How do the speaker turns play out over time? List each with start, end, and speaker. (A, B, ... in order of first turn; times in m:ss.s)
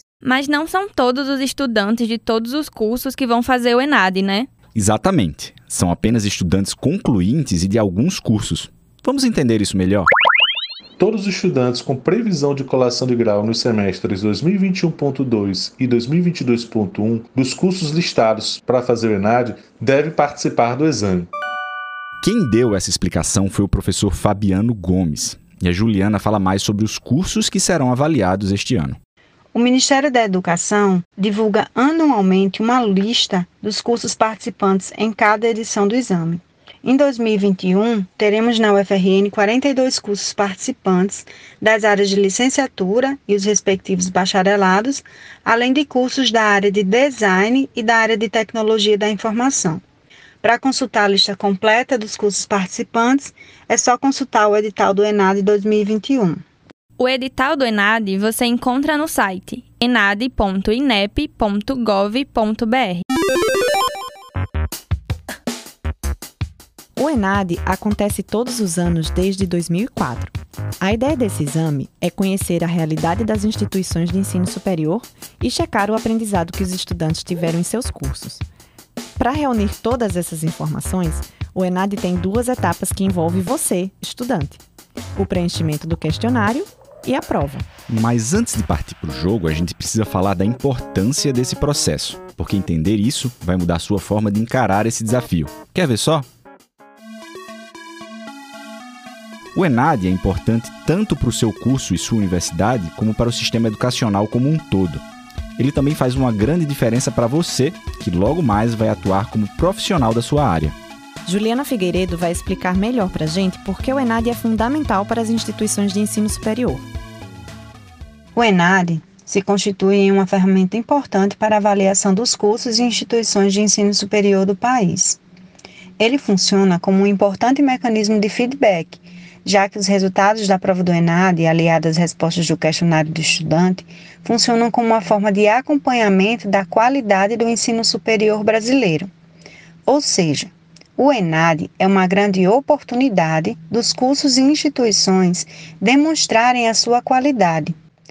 0:00.2-0:04.5 A
0:04.8-0:10.1 B
0:11.0-0:21.3 C
0:22.2-0:29.0 B
0:29.5-0:49.8 D
0:50.4-0:56.4 D
0:57.0-1:03.0 A
1:07.0-1:18.4 E
1:19.2-1:24.6 E
1:25.2-1:27.7 E
1:27.9-1:36.3 B
1:39.6-1:45.0 B
1:45.6-1:50.8 B
1:51.2-1:56.9 E
1:58.4-2:05.2 D
2:06.0-2:19.1 D
2:19.9-2:27.8 D